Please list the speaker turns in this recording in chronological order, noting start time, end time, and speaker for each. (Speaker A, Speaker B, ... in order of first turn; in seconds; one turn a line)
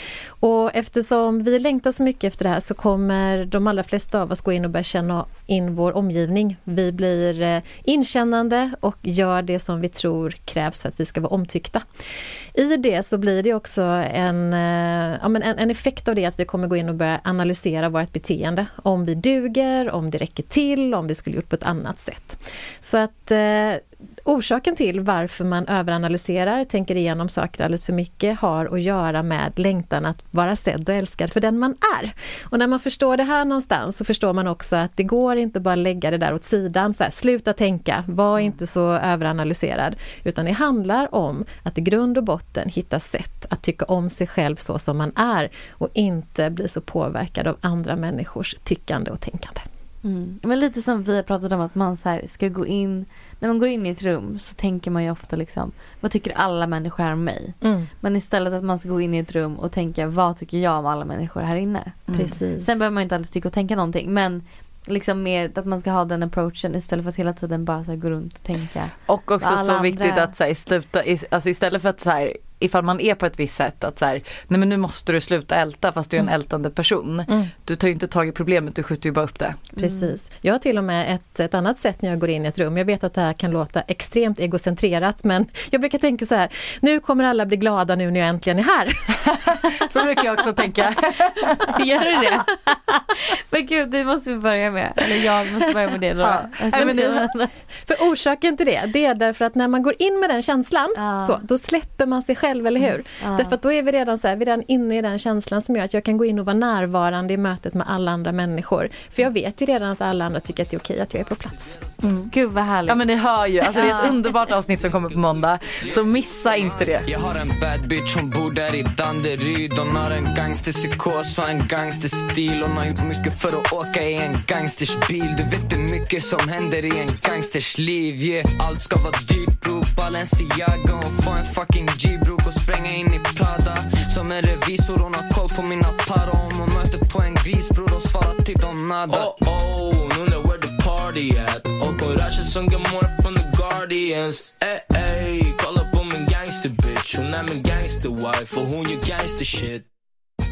Speaker A: 0.4-11.8
Speaker A: 12.5-49.6
Speaker B: 50.0-70.3
Speaker A: 57.6-57.9
Speaker A: 62.1-62.7
Speaker C: 69.1-79.7
Speaker B: 79.8-80.1
Speaker A: 79.8-89.1
Speaker C: 89.2-91.8
Speaker B: 91.7-97.5
Speaker C: 96.2-97.3
Speaker A: 97.9-111.8
Speaker B: 100.9-101.4
Speaker B: 102.8-103.6
Speaker C: 112.0-112.3
Speaker B: 112.3-113.1
Speaker C: 112.8-117.1
Speaker B: 113.6-114.2
Speaker D: 117.0-149.8